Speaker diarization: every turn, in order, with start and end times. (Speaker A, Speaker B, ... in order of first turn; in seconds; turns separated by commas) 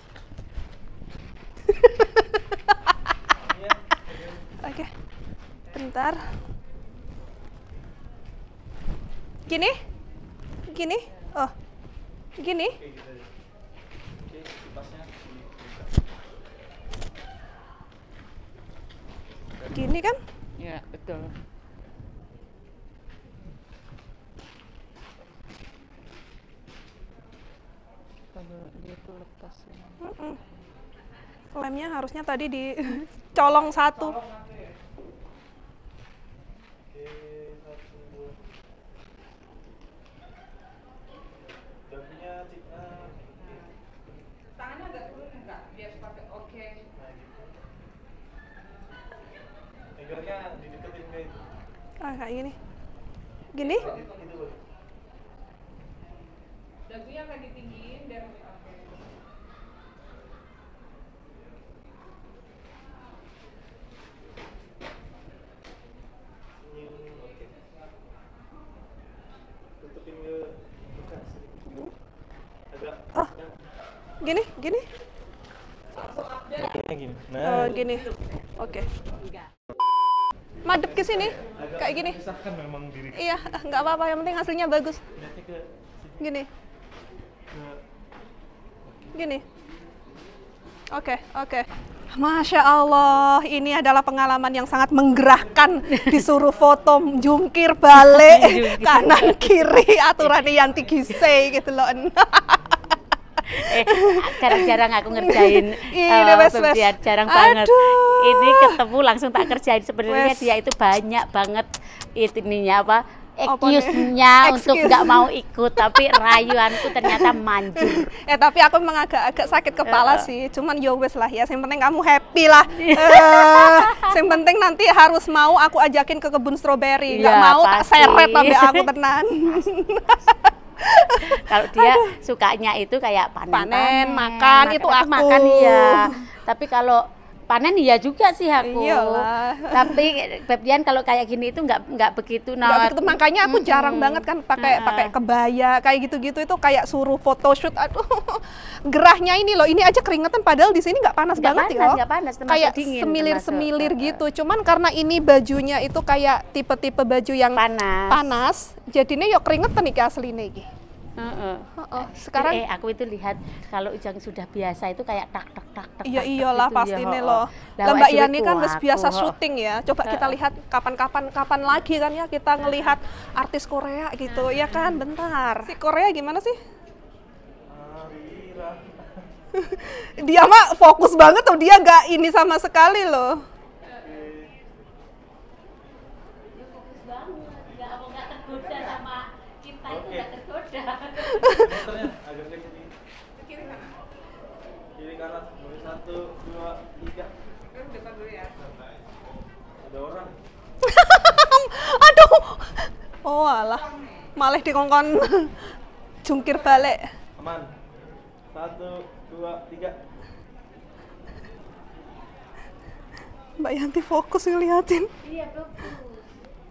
Speaker A: 1.7-2.9, Speaker B: 3.3-4.5, Speaker A: 4.6-4.9, Speaker A: 5.7-6.3, Speaker A: 9.5-9.8, Speaker A: 10.7-11.5, Speaker A: 12.4-12.8, Speaker B: 12.8-13.3, Speaker B: 14.2-16.1, Speaker A: 19.7-20.2, Speaker C: 20.6-21.3, Speaker C: 28.3-30.0, Speaker A: 30.0-30.4, Speaker A: 31.5-34.2, Speaker C: 33.4-34.8, Speaker B: 36.9-38.4, Speaker B: 41.9-43.7, Speaker C: 43.4-43.7, Speaker C: 44.6-46.8, Speaker B: 47.0-47.6, Speaker B: 50.0-51.4, Speaker A: 52.0-52.6, Speaker A: 53.5-53.9, Speaker C: 53.6-54.4, Speaker B: 53.7-54.6, Speaker C: 56.9-59.0, Speaker B: 66.6-67.5, Speaker B: 69.8-71.9, Speaker B: 72.7-73.6, Speaker A: 74.2-74.9, Speaker C: 75.9-76.8, Speaker B: 76.0-77.8, Speaker A: 77.4-78.9, Speaker D: 79.2-79.5, Speaker A: 80.6-82.2, Speaker B: 80.7-83.8, Speaker A: 83.1-85.0, Speaker B: 85.2-86.2, Speaker A: 86.2-86.5, Speaker B: 87.5-87.8, Speaker B: 88.8-89.2, Speaker A: 89.1-89.4, Speaker A: 90.9-102.6, Speaker D: 95.9-96.3, Speaker D: 97.9-99.7, Speaker D: 100.2-100.5, Speaker D: 103.5-118.1, Speaker A: 103.6-108.8, Speaker A: 110.1-110.5, Speaker A: 113.5-132.1, Speaker D: 119.9-120.3, Speaker D: 122.8-124.2, Speaker D: 127.1-128.9, Speaker D: 131.2-145.1, Speaker A: 133.5-136.2, Speaker A: 138.6-140.0, Speaker A: 142.6-160.7, Speaker D: 151.4-154.2, Speaker D: 157.6-158.2, Speaker D: 161.2-169.4, Speaker A: 161.8-162.6, Speaker A: 166.1-176.6, Speaker D: 170.1-170.3, Speaker D: 172.6-172.9, Speaker D: 174.3-175.0, Speaker B: 177.7-179.2, Speaker A: 179.6-183.4, Speaker B: 184.0-184.6, Speaker D: 186.5-191.7, Speaker B: 188.6-189.0, Speaker B: 189.9-190.3, Speaker A: 191.4-191.9, Speaker B: 191.5-192.9, Speaker C: 193.4-194.0, Speaker B: 193.6-194.0, Speaker B: 194.9-197.3, Speaker C: 197.7-198.6, Speaker B: 198.6-198.9, Speaker B: 199.8-200.3, Speaker A: 200.8-203.8, Speaker C: 203.7-204.3, Speaker A: 204.4-205.6, Speaker A: 206.2-207.1, Speaker C: 206.4-206.8, Speaker B: 207.4-207.7, Speaker B: 208.5-210.0, Speaker A: 213.6-215.1, Speaker D: 215.2-216.4